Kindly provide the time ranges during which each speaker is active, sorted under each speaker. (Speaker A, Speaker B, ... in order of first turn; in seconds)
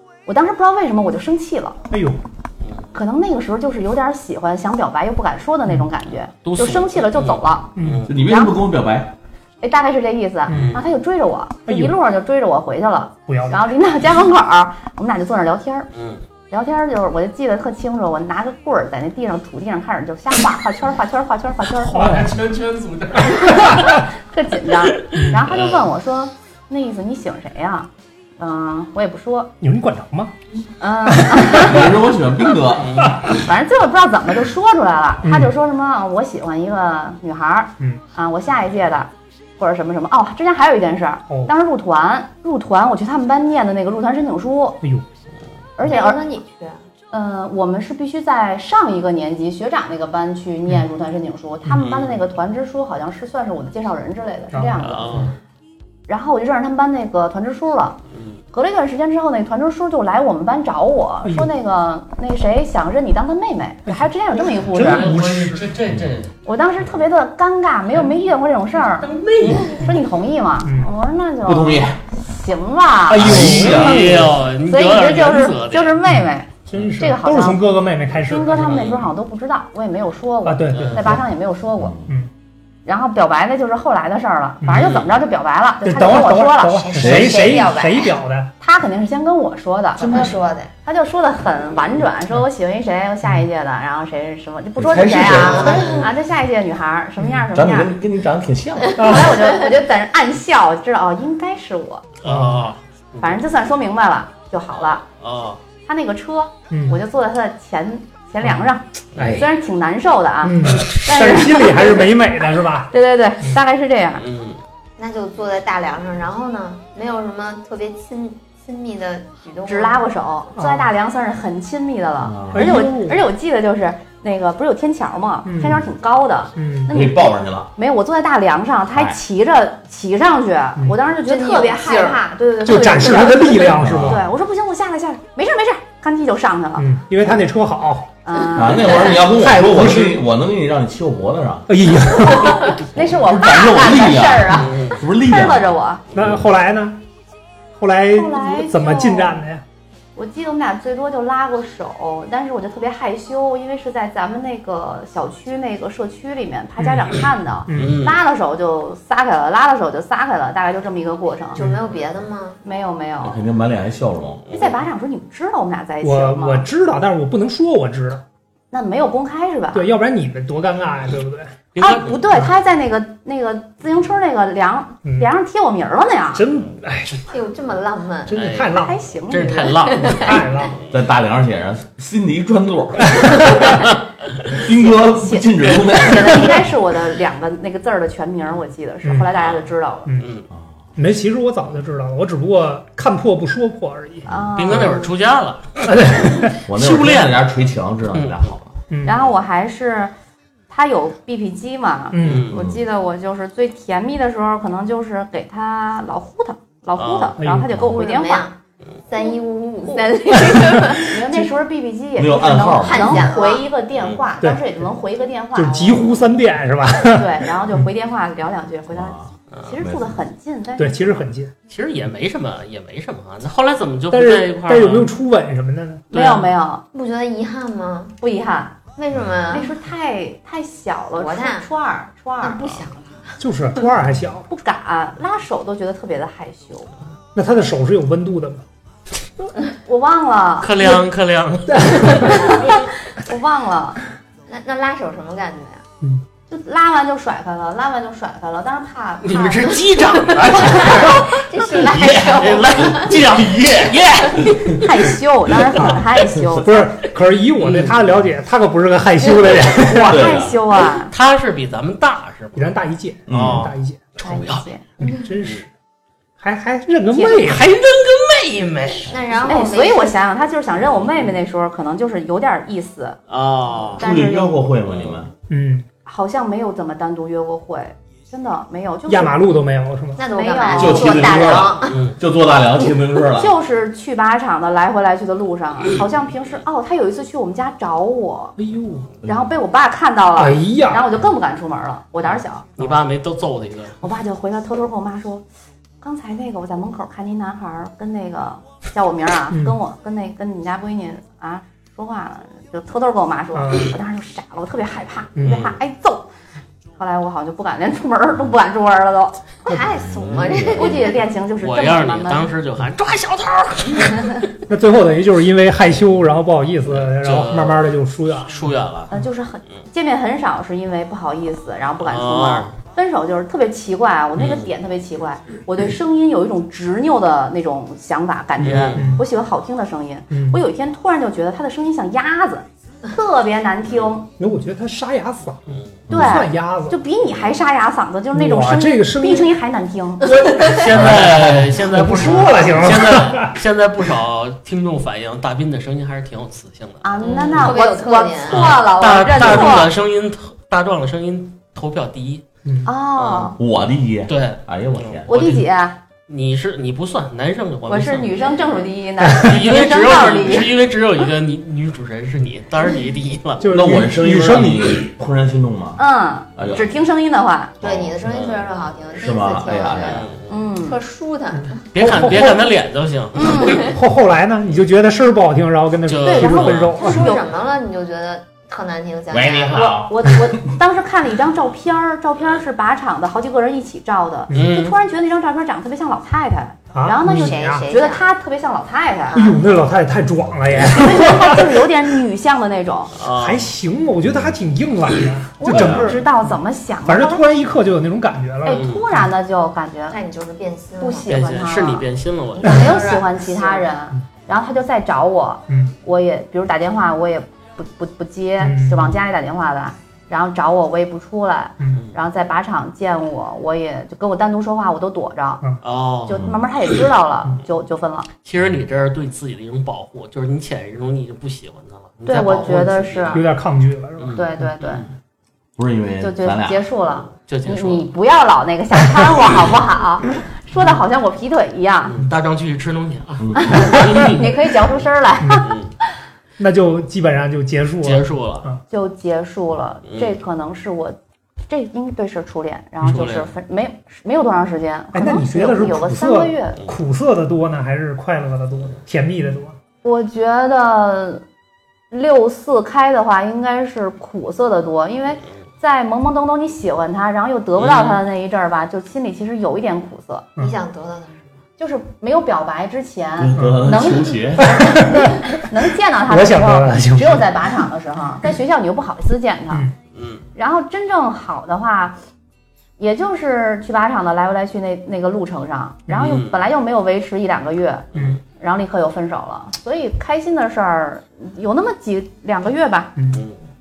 Speaker A: 0.2-1.8, 2.9-8.6, 9.6-15.9, 16.5-22.2, 23.4-29.5, 30.8-31.9, 33.3-44.8, 45.8-46.2, 47.1-55.3, 56.1-58.0, 58.5-65.1, 66.4-69.1, 69.6-77.6, 78.2-82.0, 82.8-86.8, 88.6-98.0, 99.0-102.0, 103.2-105.0, 105.8-112.1, 112.9-114.2, 119.6-136.9, 138.2-139.2, 142.3-146.0, 148.1-149.4, 150.2-161.6, 162.6-163.4, 164.5-166.7, 168.7-169.9, 171.8-176.5, 178.7-179.9, 184.6-190.1, 194.3-195.1, 199.0-200.1, 200.7-208.5, 209.2-216.1, 217.1-221.3, 226.1-226.8, 228.2-228.8, 229.5-232.8, 234.5-236.9, 239.7-241.0, 242.1-244.0, 246.5-249.9, 250.5-251.1, 254.8-256.9, 259.6-261.1, 264.2-264.8, 267.1-267.6, 269.4-273.2, 274.0-274.5, 276.0-279.4, 280.2-281.6, 283.4-288.6, 289.2-292.8, 294.0-295.4, 296.0-306.3, 307.0-309.8, 310.7-312.5, 319.1-334.3, 336.1-340.4, 347.0-349.9, 352.8-353.6, 355.3-356.0, 357.9-360.7, 366.0-367.8, 370.5-371.0, 372.4-372.6, 373.3-373.9, 376.2-377.4, 379.8-389.5, 390.9-393.1, 395.6-397.4, 398.6-400.2, 401.0-402.1, 402.6-415.6, 416.2-418.3, 422.2-423.4, 424.3-425.0, 426.2-432.1, 433.6-435.8, 438.9-441.1, 441.7-446.8, 450.0-451.4, 452.1-460.4, 461.8-469.9, 470.5-472.2, 473.0-483.1
Speaker B: 1.9-2.2, 7.8-8.1, 10.5-10.8, 11.7-11.9, 13.3-13.7, 21.8-22.4, 23.3-24.0, 25.1-25.4, 29.6-30.3, 31.1-31.8, 35.2-35.5, 54.5-55.3, 61.2-61.5, 63.9-65.7, 69.5-70.0, 70.6-70.9, 73.1-74.2, 76.0-78.9, 80.4-81.2, 84.6-84.9, 85.8-88.5, 95.5-96.0, 97.2-97.5, 99.0-99.3, 102.2-102.6, 106.7-107.0, 108.4-109.5, 110.4-112.9, 120.5-120.9, 122.5-123.2, 125.4-125.8, 126.5-126.9, 132.6-134.2, 136.8-138.1, 139.3-140.2, 141.7-142.8, 146.1-147.0, 147.7-149.6, 156.8-158.1, 166.0-168.2, 169.7-171.5, 175.0-175.3, 176.3-177.3, 178.3-179.0, 180.0-180.8, 183.1-183.6, 189.0-189.3, 190.9-194.3, 195.8-196.6, 198.9-199.2, 202.1-202.5, 207.4-207.8, 210.5-210.8, 214.4-214.7, 215.5-217.9, 220.8-221.5, 224.1-226.1, 233.4-234.5, 237.3-238.6, 241.7-242.6, 255.7-256.0, 256.6-260.2, 262.5-264.2, 265.0-265.7, 266.4-267.7, 275.5-275.9, 279.1-280.2, 288.6-289.1, 290.4-291.0, 299.5-299.8, 303.5-303.9, 305.4-305.7, 314.7-319.2, 328.9-329.2, 330.3-330.6, 334.4-337.0, 338.3-339.5, 340.4-341.3, 341.8-343.5, 363.6-365.0, 371.6-372.7, 373.6-377.3, 384.5-384.8, 386.9-387.8, 389.3-391.8, 393.2-399.3, 405.7-405.9, 408.6-409.2, 411.8-412.0, 423.3-424.4, 434.1-434.4, 435.4-435.7, 436.6-438.8, 445.1-449.8, 463.6-463.8, 464.6-467.7, 483.2-483.4
Speaker C: 6.4-8.1, 10.5-10.8, 15.9-16.2, 22.0-24.0, 25.5-25.8, 32.8-33.2, 51.8-52.2, 54.8-55.4, 58.1-58.4, 64.7-66.3, 69.0-69.9, 73.6-76.0, 78.6-79.0, 80.7-81.1, 84.7-85.1, 95.6-96.1, 102.2-103.4, 105.2-105.6, 109.2-109.4, 114.2-114.6, 144.6-144.9, 157.7-158.2, 164.5-164.7, 171.7-172.2, 178.3-180.4, 190.2-190.4, 194.6-197.4, 198.1-198.4, 202.2-202.5, 207.0-207.3, 221.7-225.1, 226.1-226.5, 240.6-242.7, 249.2-251.4, 252.0-254.8, 257.6-257.9, 260.9-262.7, 263.3-264.6, 265.4-265.6, 267.5-269.2, 273.3-274.0, 274.8-275.2, 281.8-282.2, 292.2-294.0, 305.4-305.7, 311.6-314.5, 316.9-317.9, 318.5-319.1, 322.0-322.8, 324.4-324.7, 328.6-329.1, 335.7-336.0, 340.6-347.8, 348.5-352.4, 353.2-353.6, 354.3-355.6, 356.3-358.6, 359.4-363.8, 368.2-368.6, 369.9-370.5, 371.9-373.9, 376.1-377.0, 384.5-385.0, 393.1-393.7, 398.7-399.0, 401.3-403.0, 415.8-416.6, 418.4-423.4, 424.2-425.1, 427.2-428.1, 432.1-434.5, 435.6-435.9, 438.0-438.6, 440.1-440.3, 443.0-443.5, 457.8-458.2, 470.1-470.4, 476.2-476.6, 478.1-478.4
Speaker D: 8.1-9.1, 31.6-33.1, 65.9-66.2, 71.4-72.0, 73.2-74.3, 81.8-82.1, 86.9-87.5, 94.8-95.9, 97.5-99.2, 122.2-122.8, 126.9-127.7, 128.9-129.2, 133.7-134.2, 138.5-141.7, 142.9-146.2, 163.2-164.5, 180.9-183.7, 184.5-186.7, 196.7-198.8, 202.5-202.8, 212.2-213.3, 218.9-220.2, 229.1-229.5, 251.7-254.8, 259.9-260.6, 263.3-263.7, 274.0-275.3, 280.7-283.5, 310.0-310.9, 336.1-336.3, 340.9-341.7, 353.6-355.3, 363.7-366.0, 366.6-366.9, 367.8-368.5, 369.1-370.3, 379.3-380.7, 395.7-396.2, 425.8-426.9, 433.4-434.0, 463.4-464.9
Speaker E: 45.8-46.8, 86.8-88.2, 90.0-90.7, 95.3-96.1, 115.0-120.0, 131.2-132.2, 161.6-162.6, 177.3-178.4, 179.6-180.4, 207.8-208.5, 209.1-211.2, 212.7-213.7, 226.9-228.1, 228.9-229.7, 231.2-231.7, 232.4-233.4, 244.5-245.8, 250.5-253.2, 269.1-270.1, 274.0-274.5, 280.1-282.0, 309.6-311.2, 347.2-348.8, 367.8-370.2, 370.8-371.8, 376.9-379.9, 387.2-388.2, 389.3-389.6, 400.1-401.3, 402.5-403.9, 460.6-461.5